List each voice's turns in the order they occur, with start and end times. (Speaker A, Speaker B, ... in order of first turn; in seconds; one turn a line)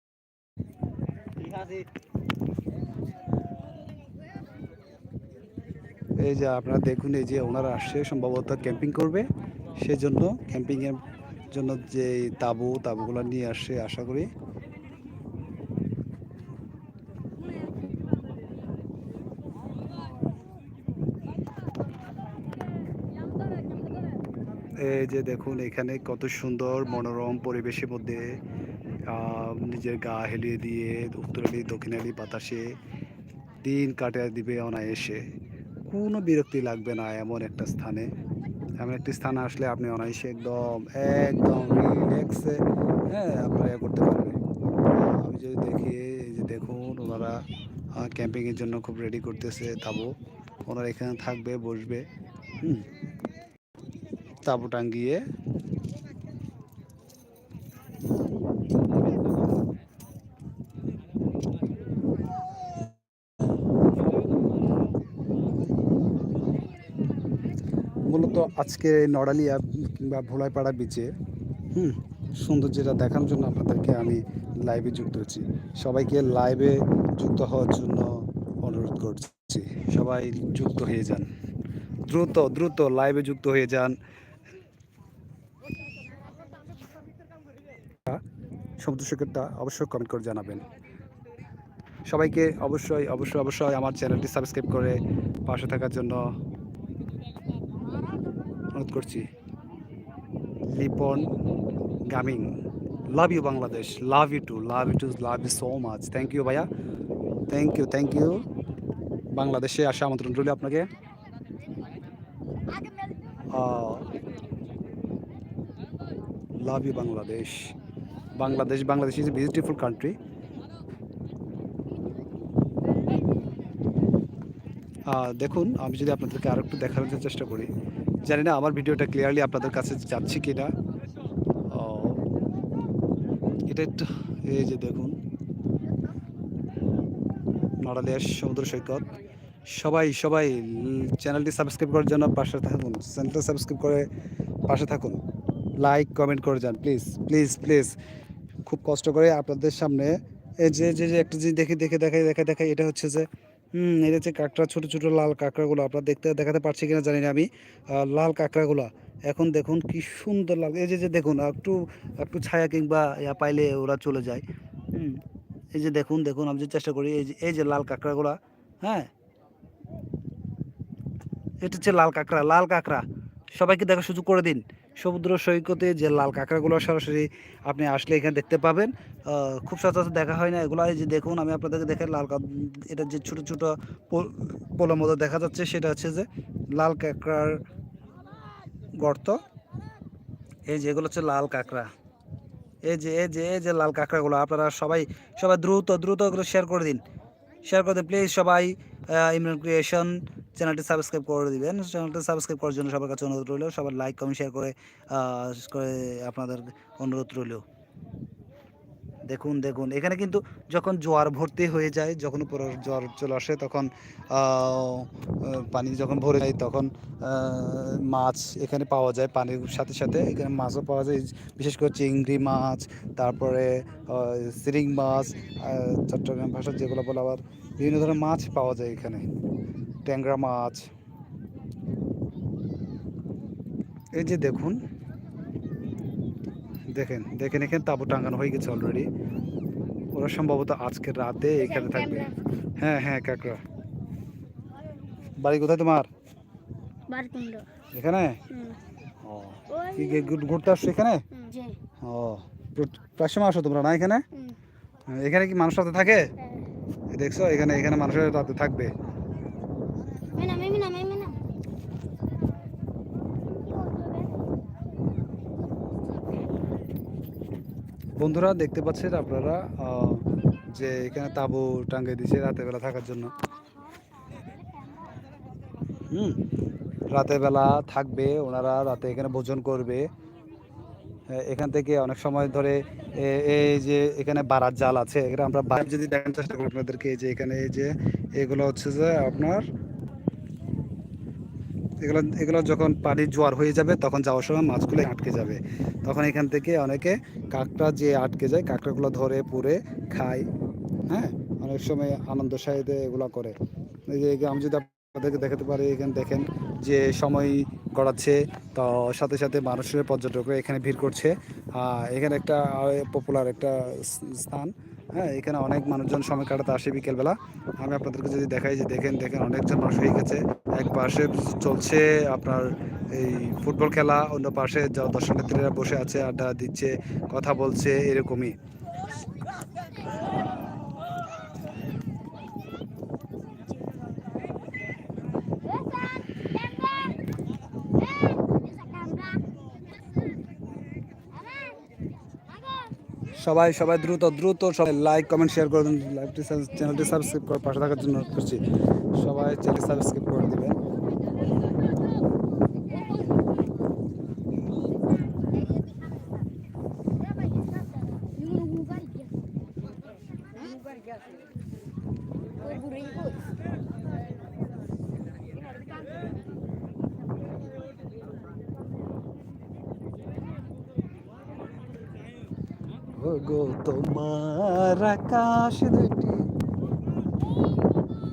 Speaker A: 6.2-14.3
Speaker A: 24.8-28.4
Speaker A: 29.1-32.7
Speaker A: 33.6-35.2
Speaker A: 35.8-38.1
Speaker A: 38.8-44.4
Speaker A: 44.9-47.4
Speaker A: 47.9-50.1
Speaker A: 50.6-52.1
Speaker A: 52.6-52.9
Speaker A: 54.4-55.2
Speaker A: 68.1-71.1
Speaker A: 71.7-78.1
Speaker A: 78.6-81.3
Speaker A: 82.1-84.0
Speaker A: 88.8-90.7
Speaker A: 92.1-96.3
Speaker A: 98.7-99.3
Speaker A: 100.7-101.3
Speaker A: 102.0-102.5
Speaker A: 103.1-106.7
Speaker A: 107.5-108.5
Speaker A: 109.3-110.9
Speaker B: 112.7-113.1
Speaker A: 113.5-114.1
Speaker A: 116.6-117.7
Speaker A: 118.4-120.2
Speaker A: 125.1-127.7
Speaker A: 128.2-130.7
Speaker A: 131.7-132.2
Speaker A: 133.7-135.2
Speaker A: 137.8-139.1
Speaker A: 139.7-144.1
Speaker A: 144.7-145.2
Speaker A: 145.8-147.9
Speaker A: 148.7-165.2
Speaker A: 165.7-169.1
Speaker A: 171.6-173.0
Speaker A: 173.6-187.6
Speaker A: 189.0-189.4
Speaker A: 190.7-191.9
Speaker A: 192.8-197.0
Speaker A: 197.7-207.6
Speaker A: 209.3-229.2
Speaker A: 230.1-230.9
Speaker A: 234.2-234.8
Speaker A: 236.9-239.1
Speaker A: 240.1-243.6
Speaker B: 241.6-242.4
Speaker A: 245.4-246.1
Speaker B: 247.1-247.7
Speaker A: 247.9-248.4
Speaker B: 248.5-248.8
Speaker A: 249.2-251.2
Speaker B: 249.7-250.2
Speaker B: 251.3-251.8
Speaker A: 252.0-254.2
Speaker A: 255.1-256.3
Speaker B: 256.4-256.6
Speaker A: 257.1-258.9
Speaker B: 260.3-261.4
Speaker B: 263.5-264.4
Speaker A: 268.2-273.4
Speaker A: 276.1-276.4
Speaker A: 277.1-280.1
Speaker A: 281.3-289.6
Speaker A: 292.0-300.5
Speaker A: 301.1-303.5
Speaker A: 304.1-328.6
Speaker B: 335.9-336.4
Speaker B: 338.1-339.4
Speaker A: 343.4-350.8
Speaker B: 355.6-355.9
Speaker B: 358.1-359.4
Speaker B: 360.6-361.1
Speaker B: 362.6-363.5
Speaker A: 373.1-376.5